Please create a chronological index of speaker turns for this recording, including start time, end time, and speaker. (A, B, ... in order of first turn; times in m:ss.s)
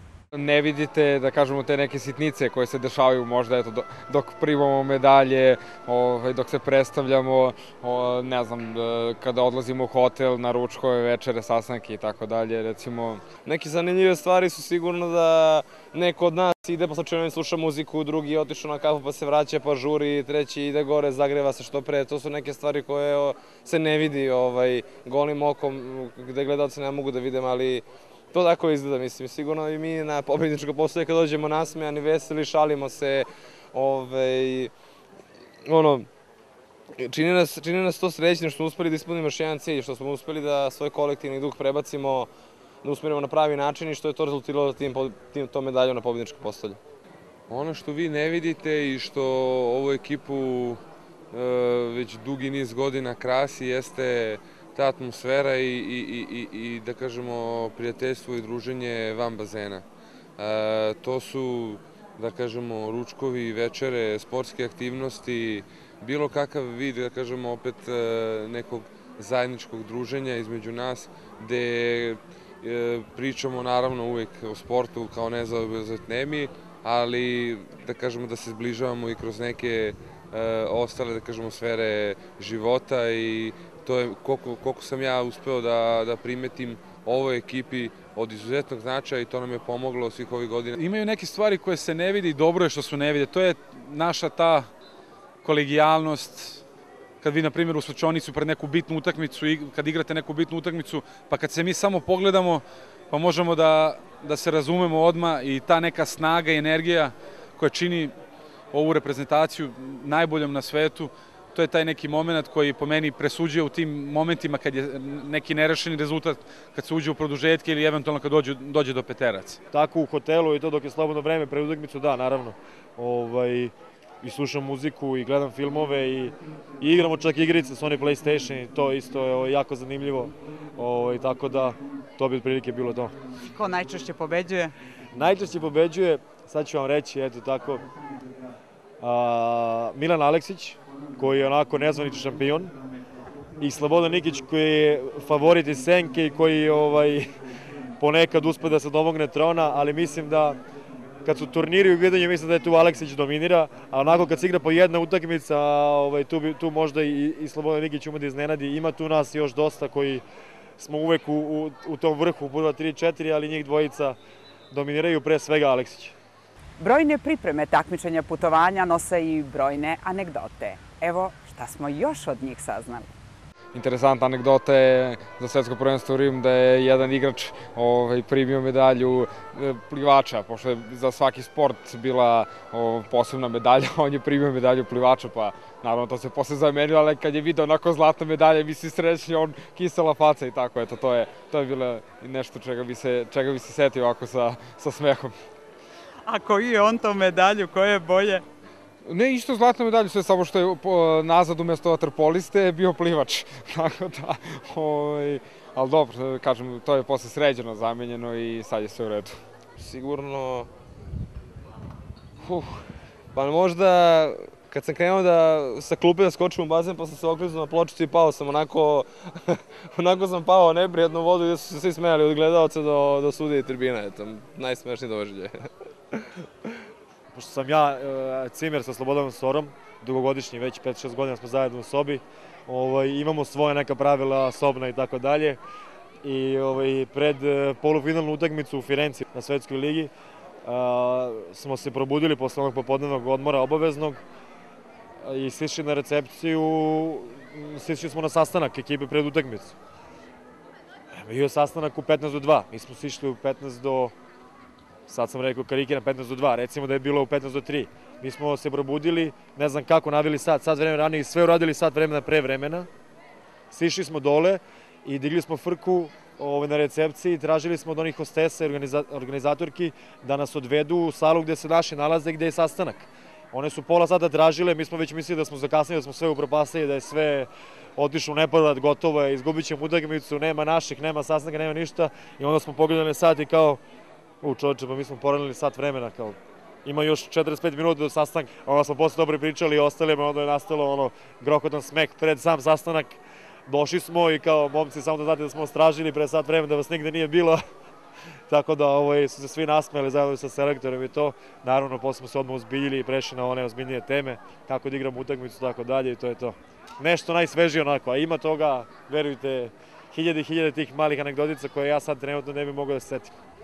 0:00.3-0:13.2 A
0:13.4-0:34.7 B
0:35.6-0:36.1 B
0:37.0-0:42.3 B
0:42.8-0:46.8 B
0:47.5-0:50.8 C
0:51.3-0:59.8 C
1:00.4-1:30.8 C
1:30.8-1:34.7 D
1:35.4-1:36.6 D
1:37.2-1:48.1 D
1:48.7-1:59.6 D
1:59.7-2:13.1 E
2:13.5-2:14.7 F
2:15.1-2:17.8 E
2:19.0-2:22.7 E
2:23.6-2:27.3 E
2:28.0-2:30.6 E
2:31.2-2:40.2 E
2:40.8-2:44.2 E
2:44.7-2:46.1 E
2:46.8-2:53.1 F
2:53.7-3:15.3 A
3:16.2-3:18.4 F
3:19.0-3:29.4 A
3:29.8-3:30.7 B
3:32.5-3:32.7 B
3:33.3-3:46.8 B
3:47.3-3:55.6 E
3:56.2-4:00.1 E
4:00.6-4:04.2 E
4:05.2-4:09.7 E
4:11.1-4:14.1 E
4:15.1-4:22.9 E
4:23.7-4:43.8 E
4:44.4-4:57.6 E
4:58.5-5:13.3 E